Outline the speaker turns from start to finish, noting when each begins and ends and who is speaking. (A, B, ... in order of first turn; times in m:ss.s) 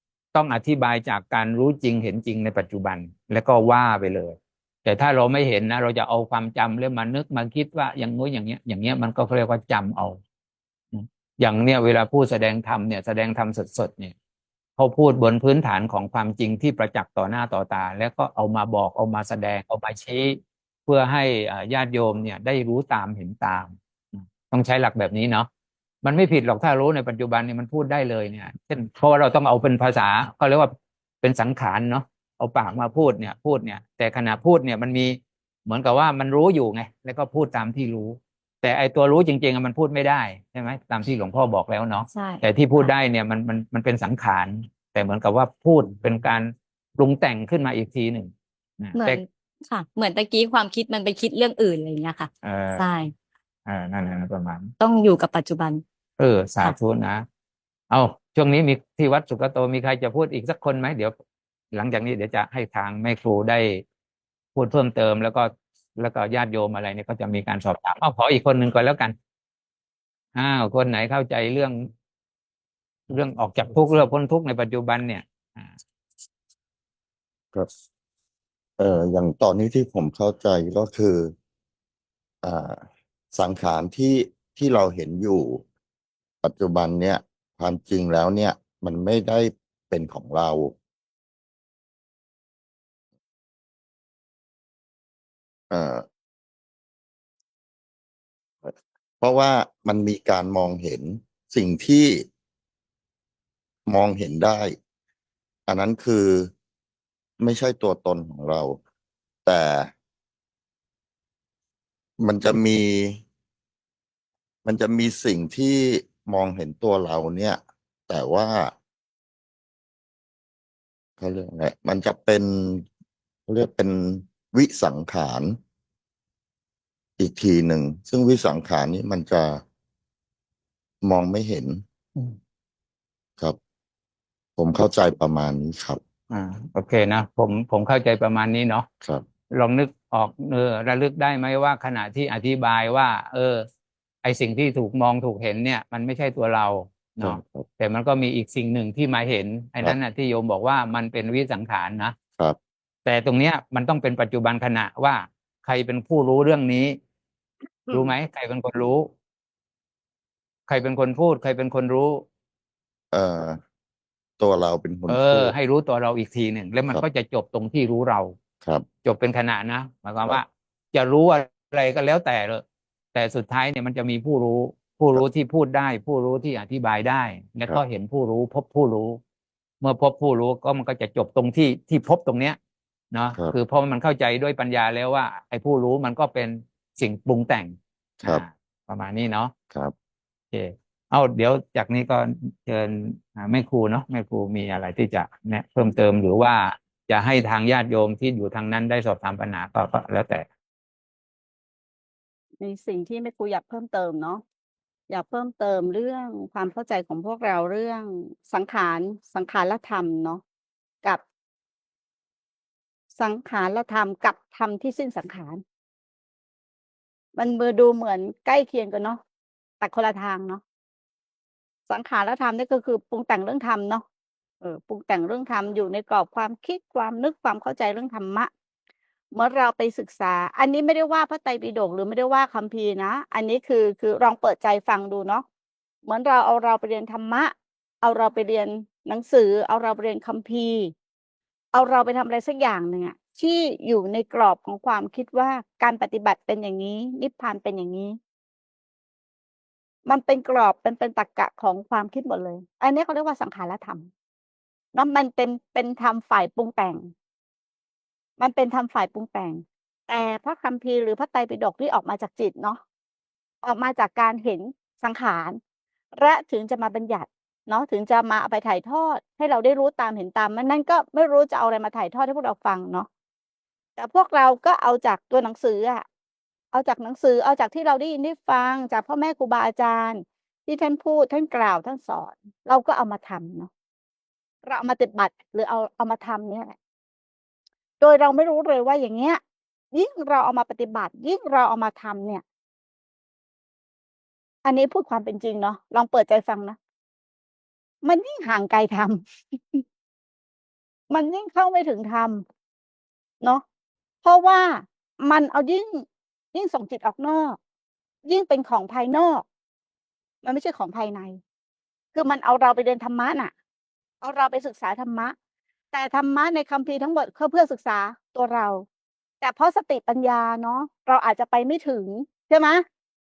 0:00.3-0:10.2 A
0:10.9-0:14.1 A
0:14.8-0:25.5 A
0:26.0-0:49.2 A
0:42.1-0:42.9 B
0:48.9-0:53.1 B
0:52.4-0:52.8 A
0:53.6-0:54.7 A
0:54.8-0:55.8 B
0:56.2-0:57.2 A
0:57.9-1:01.1 A
1:01.7-1:03.8 A
1:04.5-1:09.1 A
1:10.3-1:11.9 A
1:13.1-1:15.8 A
1:18.8-1:21.3 C
1:22.4-1:25.6 C
1:26.4-1:30.7 C
1:35.7-1:36.0 C
1:38.6-1:42.2 C
1:43.9-1:44.8 C
1:45.7-1:46.5 C
1:47.4-1:48.8 C
1:49.4-1:49.9 C
1:52.2-1:53.2 C
1:54.6-1:58.7 C
2:01.2-2:02.8 C
2:03.5-2:05.6 C
2:07.2-2:09.6 C
2:11.0-2:11.8 C
2:14.6-2:16.0 C
2:16.3-2:18.9 A
2:19.5-2:23.6 A
2:24.2-2:32.2 A
2:27.2-2:27.6 C
2:33.0-2:37.0 A
2:37.9-2:39.1 A
2:40.7-2:42.2 A
2:43.1-2:43.6 C
2:44.4-2:45.5 C
2:45.1-2:48.4 A
2:49.0-2:52.6 A
2:53.1-2:59.2 A
2:59.8-3:02.6 A
3:03.1-3:09.5 A
3:10.5-3:20.4 A
3:22.6-3:24.4 D
3:25.1-3:30.4 D
3:33.2-3:35.6 D
3:37.3-3:39.2 D
3:39.8-3:40.6 D
3:41.9-3:44.0 D
3:44.6-3:48.5 D
3:49.3-3:55.4 D
3:56.0-4:00.9 D
4:01.7-4:08.2 D
4:10.0-4:14.1 D
4:14.9-4:17.1 D
4:18.4-4:22.8 D
4:23.6-4:25.6 D
4:26.1-4:33.1 D
4:34.0-4:36.0 D
4:36.7-4:43.7 D
4:44.6-4:46.7 D
4:48.0-4:49.4 D
4:49.9-4:52.4 D
4:54.6-4:56.8 D
4:58.0-4:59.8 D
5:01.1-5:02.4 D
5:04.2-5:07.6 D
5:08.2-5:09.4 D
5:10.4-5:11.4 D
5:12.1-5:13.5 D
5:14.2-5:15.3 D
5:15.9-5:18.8 D
5:19.4-5:22.8 D